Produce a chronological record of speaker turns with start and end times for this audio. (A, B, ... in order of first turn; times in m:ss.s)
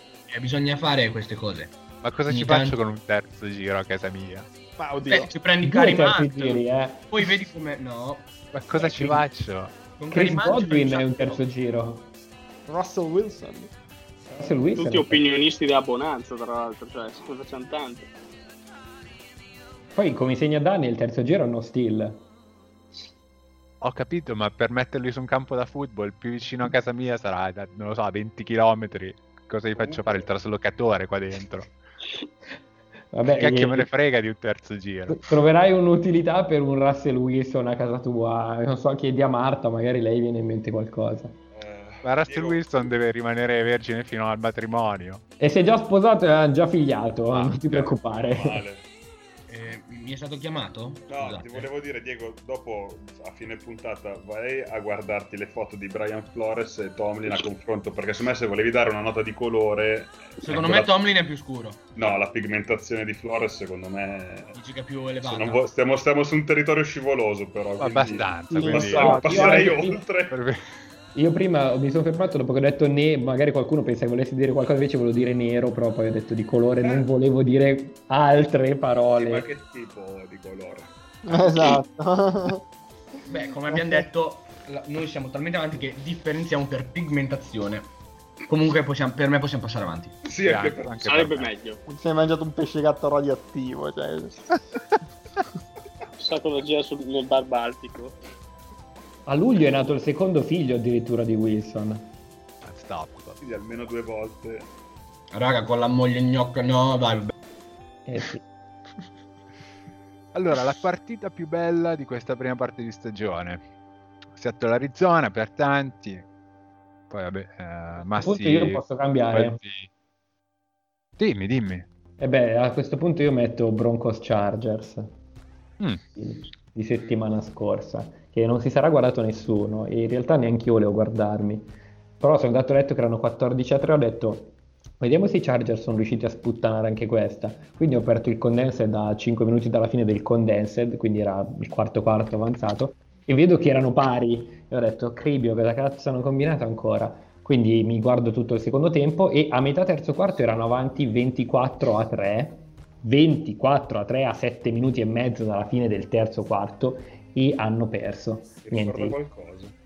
0:00.3-0:02.8 A
0:02.0-0:04.5 B
0:04.8-0:05.4 C
0:05.1-0:09.2 A
0:05.6-0:07.3 D
0:08.5-0:09.7 B
0:10.0-0:11.4 A
0:10.1-0:12.1 D
0:12.7-0:13.7 C
0:14.3-0:15.2 D
0:14.7-0:18.1 E
0:19.9-0:22.2 D
0:23.8-0:31.7 B
0:33.1-0:33.9 D
0:33.3-0:35.3 B
0:35.1-0:41.4 D
0:41.5-0:42.7 F
0:42.0-0:45.2 B
0:45.4-0:48.6 D
0:47.3-0:47.6 B
0:47.6-0:48.9 F
0:49.5-0:51.7 A
0:51.1-1:00.3 F
1:00.4-1:01.9 A
1:00.5-1:00.9 B
1:02.0-1:04.6 F
1:04.6-1:05.7 A
1:05.2-1:10.4 F
1:07.8-1:09.2 B
1:08.5-1:09.7 C
1:08.8-1:10.1 D
1:10.3-1:10.7 B
1:11.1-1:19.5 D
1:19.1-1:21.4 F
1:21.3-1:22.6 C
1:23.3-1:27.9 A
1:28.5-1:30.2 A
1:30.2-1:31.0 F
1:30.4-1:31.5 B
1:31.0-1:31.8 E
1:31.9-1:34.5 C
1:36.2-1:38.2 E
1:39.3-1:42.1 D
1:42.6-1:43.4 B
1:43.4-1:44.7 F
1:45.3-1:47.3 A
1:48.1-1:48.4 D
1:50.3-1:53.6 B
1:54.4-1:56.3 B
1:57.1-1:59.9 B
1:58.2-1:59.6 D
2:01.2-2:01.9 B
2:02.2-2:05.1 D
2:06.2-2:39.3 D
2:38.6-2:39.7 F